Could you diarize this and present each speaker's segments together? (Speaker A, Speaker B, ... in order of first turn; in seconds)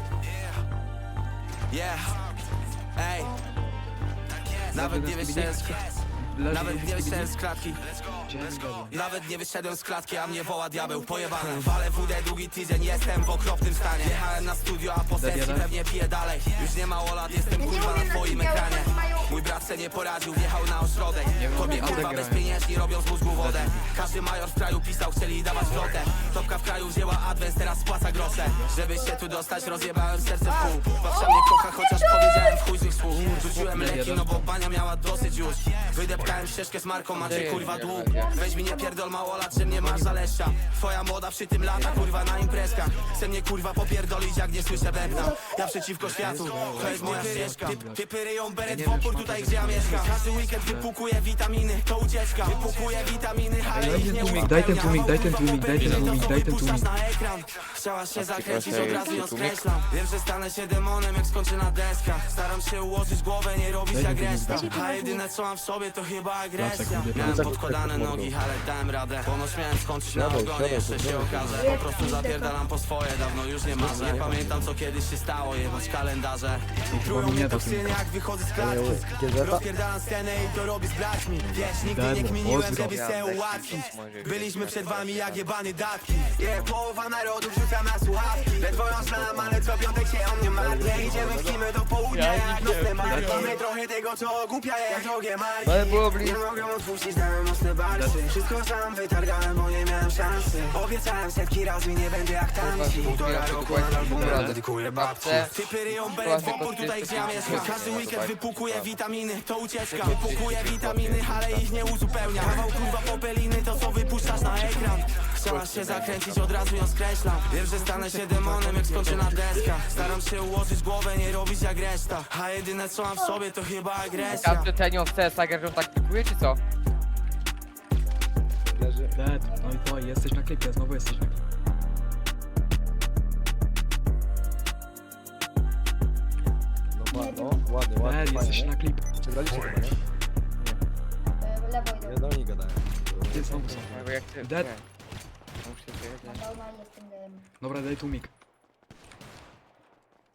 Speaker A: 1.7-2.4, 3.0-3.3, 4.3-124.7
Speaker B: 3.2-4.1, 10.7-11.3, 12.6-14.2, 17.6-19.2, 21.5-22.1, 28.9-32.3, 35.1-35.5, 38.0-39.0, 41.8-43.0, 45.0-45.6, 52.6-53.2, 58.8-59.2, 64.5-65.2, 71.6-72.5, 88.2-89.7, 106.0-108.0, 112.4-115.0, 123.2-123.4, 124.1-124.5, 129.4-129.8, 137.1-137.7, 141.4-142.3, 146.2-147.5
Speaker C: 4.7-9.0, 11.4-11.7, 15.1-15.8, 21.3-22.6, 23.3-23.9, 33.1-34.5, 37.1-37.8, 39.5-40.4, 44.6-45.3, 46.0-48.1, 48.6-50.9, 53.7-57.0, 63.9-65.0, 66.5-67.5, 73.8-74.5, 76.9-78.0, 81.4-82.9, 86.5-86.8, 88.9-89.7, 93.0-93.6, 97.9-98.3, 104.0-104.6, 114.2-115.0, 117.7-119.4, 129.1-131.4, 138.0-139.1, 143.3-144.7, 147.6-148.3
Speaker D: 37.2-38.3, 41.7-42.1, 58.1-59.6, 82.7-85.5, 92.1-92.9, 95.6-96.6, 102.5-109.0, 109.8-112.7, 115.4-117.1, 124.2-126.6, 143.7-144.8, 145.6-146.5
Speaker E: 67.2-68.3, 70.1-71.8, 73.8-74.6, 78.6-79.6, 90.5-91.6, 128.7-129.2, 136.9-140.0, 142.0-143.9